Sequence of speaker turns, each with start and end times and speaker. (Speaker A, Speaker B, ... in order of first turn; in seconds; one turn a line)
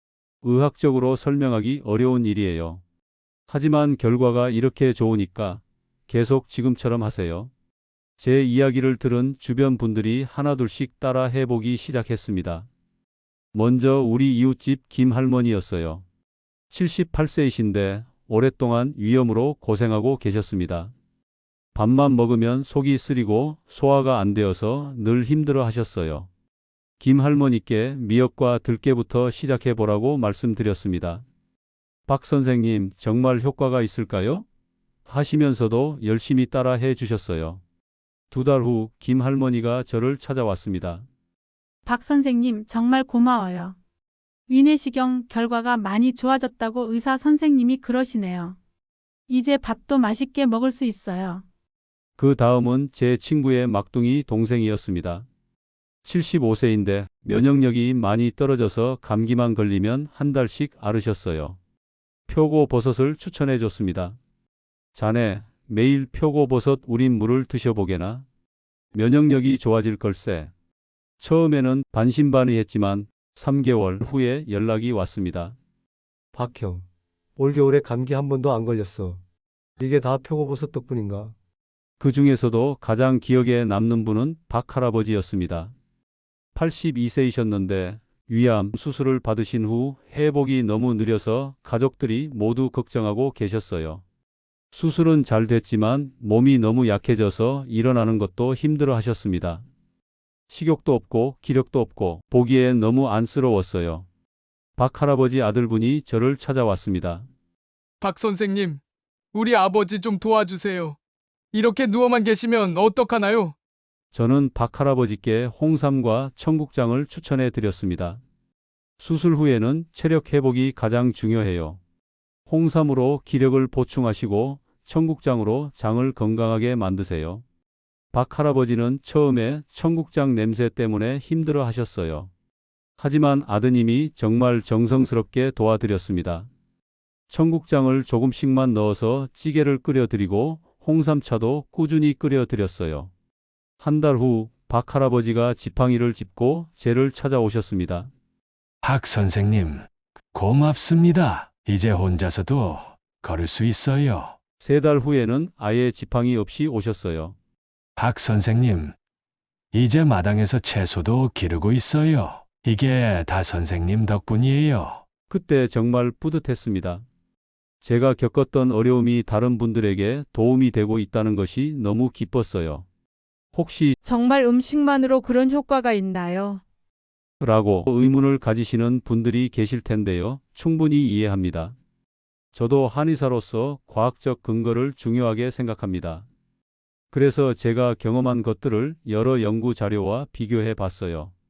Speaker A: 0.4-2.8
Speaker A: 3.5-7.5
Speaker A: 8.2-12.7
Speaker A: 13.5-16.1
Speaker A: 16.7-20.9
Speaker A: 21.8-26.3
Speaker A: 27.0-31.2
Speaker A: 32.1-34.5
Speaker A: 35.1-37.6
Speaker A: 38.3-41.1
Speaker B: 41.9-43.8
Speaker B: 44.5-48.6
Speaker B: 49.3-51.4
Speaker A: 52.2-55.3
Speaker A: 56.0-61.6
Speaker A: 62.3-64.2
Speaker A: 65.0-68.2
Speaker A: 68.9-70.5
Speaker A: 71.2-75.6
Speaker C: 76.3-76.8
Speaker C: 77.4-79.2
Speaker C: 79.8-81.3
Speaker A: 82.0-85.7
Speaker A: 86.5-94.0
Speaker A: 94.7-99.6
Speaker A: 100.5-104.1
Speaker A: 104.8-107.3
Speaker D: 108.0-108.8
Speaker D: 109.3-111.0
Speaker D: 111.5-113.5
Speaker A: 114.1-118.2
Speaker A: 119.0-121.8
Speaker A: 122.5-127.4
Speaker A: 128.1-132.3
Speaker A: 133.0-136.5
Speaker A: 137.3-143.1
Speaker A: 143.8-148.1
Speaker E: 148.8-154.4
Speaker A: 154.6-157.3
Speaker E: 158.0-158.9
Speaker E: 159.7-165.0
Speaker A: 165.3-167.0
Speaker A: 167.8-172.9
Speaker A: 173.5-173.9
Speaker F: 174.0-176.6
Speaker A: 177.4-181.8
Speaker A: 182.5-186.3
Speaker A: 187.1-191.3